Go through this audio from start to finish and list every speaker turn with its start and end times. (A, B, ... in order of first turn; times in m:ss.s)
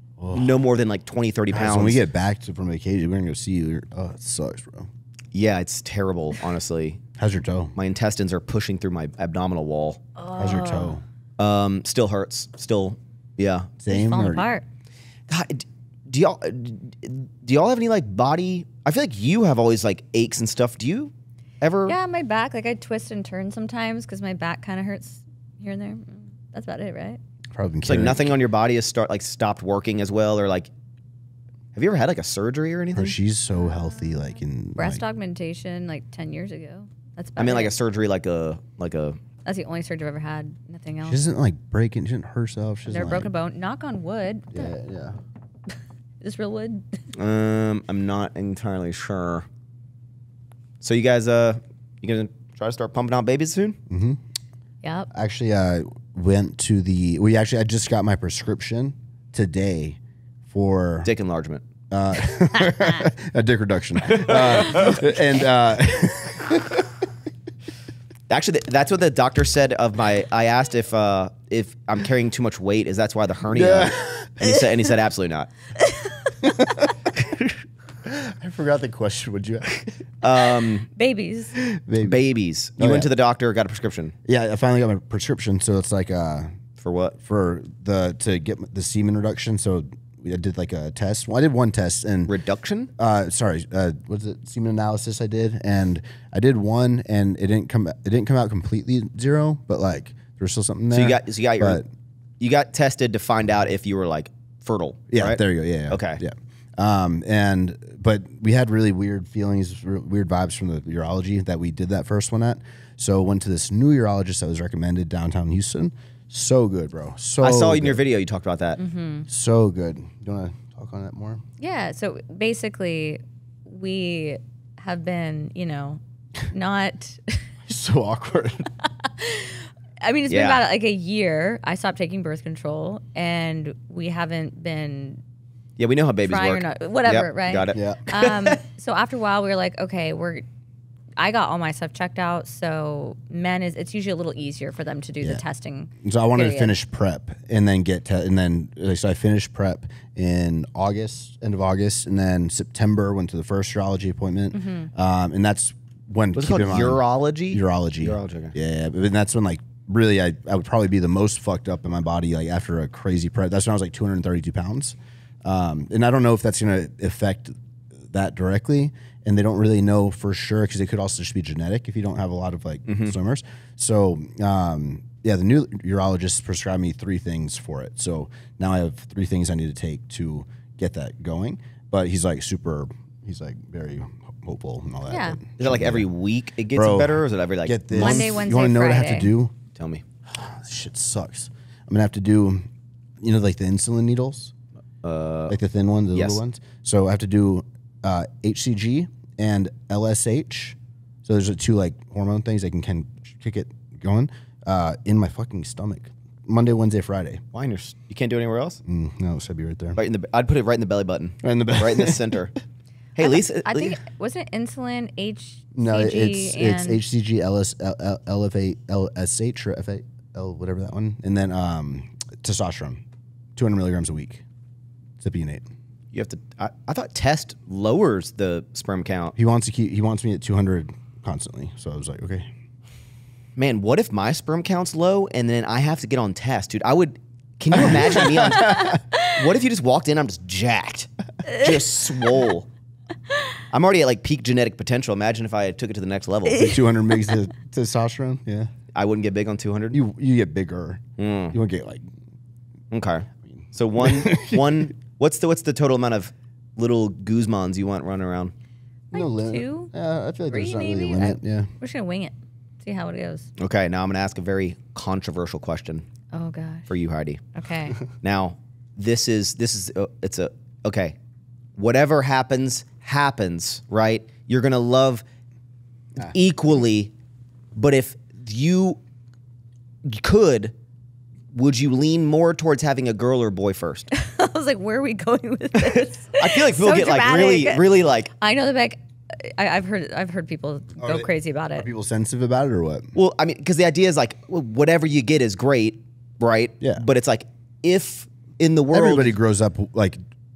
0:00.2-0:00.6 A
0:00.3-0:02.0 B
0:01.5-0:04.9 A
0:05.3-0:07.0 B
0:07.2-0:07.7 A
0:07.7-0:10.0 B
0:10.2-0:11.0 C
0:10.4-0:11.0 A
0:11.4-0:13.7 B
0:13.8-0:14.5 A
0:13.9-0:14.6 C
0:15.3-0:21.9 B
0:21.8-0:27.2 C
0:27.5-0:28.3 A
0:27.8-0:30.7 B
0:31.7-0:33.2 B
0:32.9-0:35.0 A
0:33.7-0:34.2 C
0:34.8-0:37.7 C
0:37.4-0:39.2 B
0:39.4-0:41.2 C
0:41.0-0:43.3 A
0:42.9-0:44.7 C
0:44.5-0:45.2 A
0:46.2-0:47.0 C
0:47.1-0:49.4 B
0:50.8-0:53.8 B
0:53.9-0:54.2 A
0:54.8-0:55.1 C
0:55.1-1:00.0 A
1:00.5-1:01.1 A
1:01.0-1:01.6 B
1:01.9-1:06.9 A
1:04.0-1:05.0 B
1:08.3-1:15.5 B
1:13.5-1:14.4 A
1:15.8-1:16.3 C
1:16.4-1:16.9 A
1:18.0-1:19.9 A
1:20.2-1:20.9 B
1:21.0-1:21.6 C
1:21.6-1:22.2 A
1:22.0-1:24.1 B
1:22.8-1:23.1 A
1:24.2-1:26.5 A
1:26.8-1:27.2 B
1:27.2-1:32.3 A
1:32.3-1:32.9 B
1:33.0-1:41.8 A
1:40.9-1:41.8 B
1:42.4-1:46.2 B
1:45.1-1:58.0 A
1:57.4-1:58.8 B
1:58.8-1:59.3 C
1:59.3-2:01.4 A
2:01.6-2:07.4 C
2:07.7-2:08.7 A
2:08.8-2:15.2 C
2:10.3-2:10.6 B
2:15.8-2:18.6 B
2:16.2-2:20.4 C
2:17.7-2:18.0 A
2:21.2-2:26.7 C
2:26.0-3:06.1 A
2:34.5-2:34.9 C
2:36.3-2:38.5 B
2:52.8-2:53.1 B
3:05.1-3:05.4 C
3:05.6-3:08.3 B
3:06.7-3:09.5 A
3:07.9-3:09.3 C
3:09.8-3:10.0 B
3:10.3-3:12.7 A
3:13.2-3:14.5 A
3:15.0-3:15.6 B
3:15.5-3:27.4 A
3:16.1-3:16.4 B
3:27.5-3:28.8 B
3:28.8-3:30.0 A
3:30.0-3:32.5 B
3:31.4-3:32.3 A
3:33.2-3:34.0 B
3:33.2-3:37.0 C
3:35.7-3:43.0 A
3:43.6-3:44.4 A
3:45.2-3:45.6 A
3:46.1-3:49.3 B
3:49.4-3:52.5 A
3:53.6-4:02.7 B
3:57.8-3:59.0 A
3:58.7-3:59.3 C
4:03.7-4:06.7 B
4:06.5-4:06.8 C
4:06.6-4:08.7 A
4:08.9-4:10.0 B
4:09.9-4:12.0 A
4:11.2-4:11.6 B
4:12.9-4:18.5 B
4:13.4-4:14.9 A
4:19.1-4:19.9 C
4:19.1-4:21.7 A
4:20.5-4:23.5 C
4:23.6-4:26.0 B
4:26.3-4:26.9 C
4:26.9-4:27.4 B
4:27.5-4:28.0 C
4:28.2-4:31.2 B
4:31.8-4:35.2 B
4:36.2-4:37.1 B
4:37.7-4:39.0 B
4:40.0-4:40.7 B
4:41.5-4:44.1 B
4:44.1-4:47.9 C
4:46.4-4:48.3 B
4:48.4-4:51.9 C
4:51.0-4:53.1 A
4:53.1-4:59.4 B
4:58.9-5:00.2 A